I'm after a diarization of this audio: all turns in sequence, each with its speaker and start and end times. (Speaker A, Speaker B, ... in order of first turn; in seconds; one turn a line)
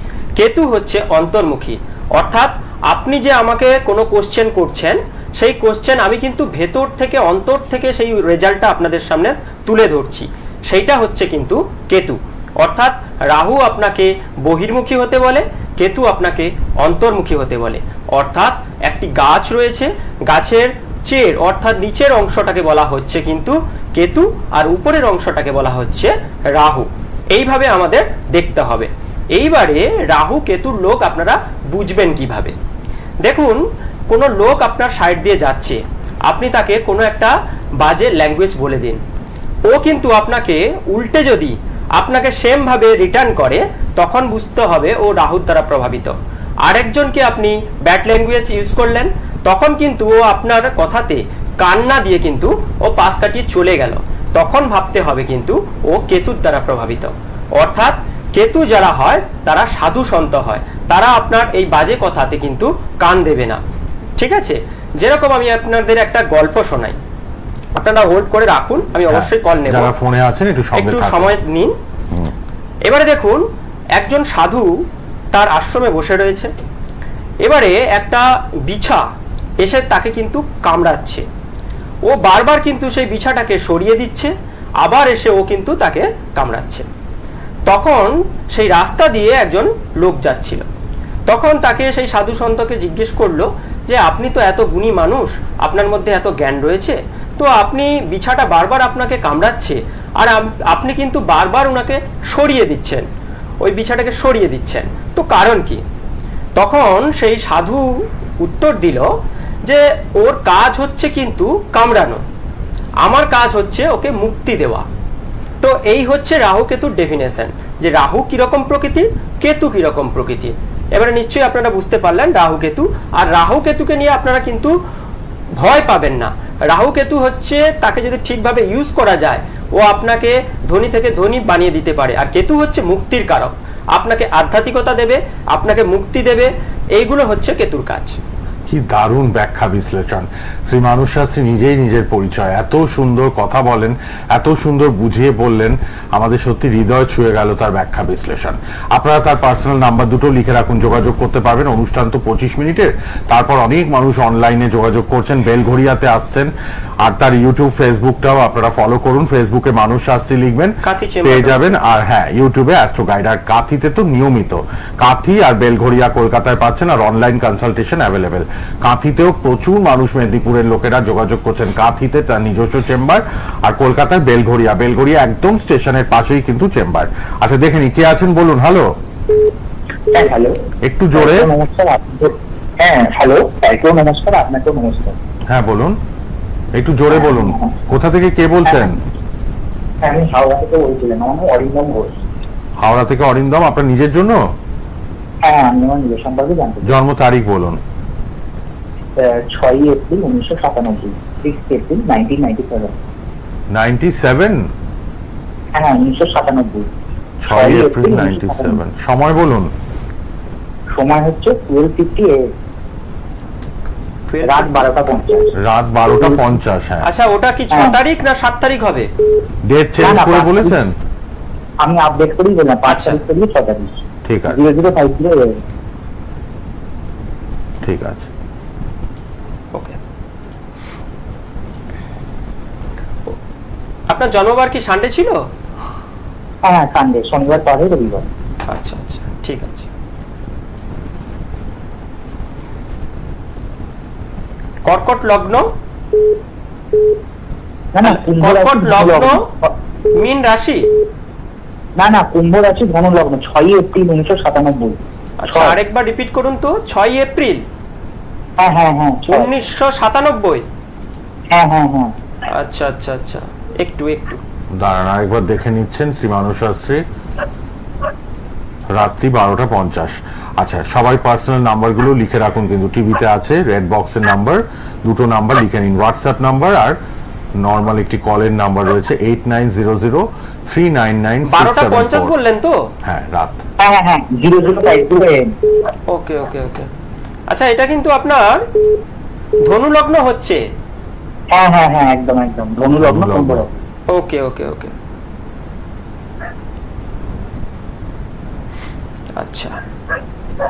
Speaker A: 0.4-32.5
Speaker A: 33.2-39.0
Speaker A: 39.7-63.6
Speaker A: 64.2-67.0
Speaker A: 67.8-69.9
Speaker B: 69.1-71.4
Speaker A: 70.8-71.7
Speaker A: 72.8-73.4
Speaker A: 74.0-74.8
Speaker A: 75.3-76.5
Speaker A: 77.4-79.1
Speaker A: 79.6-81.2
Speaker A: 82.1-86.9
Speaker A: 87.7-90.7
Speaker A: 91.3-103.1
Speaker A: 103.6-105.8
Speaker A: 106.6-107.9
Speaker A: 108.4-109.1
Speaker A: 109.7-112.2
Speaker A: 113.0-114.9
Speaker A: 115.6-124.8
Speaker A: 125.6-138.2
Speaker B: 138.7-156.5
Speaker B: 157.0-178.9
Speaker A: 160.8-161.8
Speaker C: 180.1-180.6
Speaker B: 180.8-181.5
Speaker C: 181.1-185.2
Speaker B: 185.5-186.0
Speaker B: 186.8-189.0
Speaker C: 187.1-187.7
Speaker C: 190.0-192.2
Speaker B: 192.8-194.4
Speaker C: 195.4-196.9
Speaker B: 196.8-197.8
Speaker C: 199.2-202.9
Speaker B: 203.7-204.6
Speaker C: 205.8-206.9
Speaker B: 207.4-209.7
Speaker C: 207.5-208.8
Speaker C: 210.9-212.4
Speaker A: 214.3-214.8
Speaker C: 214.4-215.5
Speaker B: 215.6-217.1
Speaker A: 217.0-219.1
Speaker B: 219.7-220.9
Speaker C: 220.0-220.8
Speaker C: 221.8-224.0
Speaker A: 222.9-223.2
Speaker B: 224.3-224.6
Speaker C: 224.7-225.6
Speaker B: 227.8-228.3
Speaker A: 234.1-235.4
Speaker C: 236.7-238.3
Speaker A: 238.7-239.9
Speaker A: 244.9-245.7
Speaker C: 247.9-249.7
Speaker A: 248.0-249.5
Speaker A: 250.2-250.8
Speaker C: 252.0-255.8
Speaker A: 255.4-257.6
Speaker C: 258.6-259.5
Speaker A: 259.3-260.6
Speaker C: 261.5-262.1
Speaker A: 262.5-264.4
Speaker B: 264.8-267.0
Speaker B: 268.9-277.0
Speaker B: 277.6-282.3
Speaker A: 281.5-282.8
Speaker B: 283.1-283.6
Speaker C: 283.8-285.5
Speaker A: 286.1-286.9
Speaker A: 287.5-288.6
Speaker A: 289.7-290.6
Speaker C: 291.5-293.7
Speaker B: 293.0-293.6
Speaker A: 294.1-294.9
Speaker A: 299.4-299.8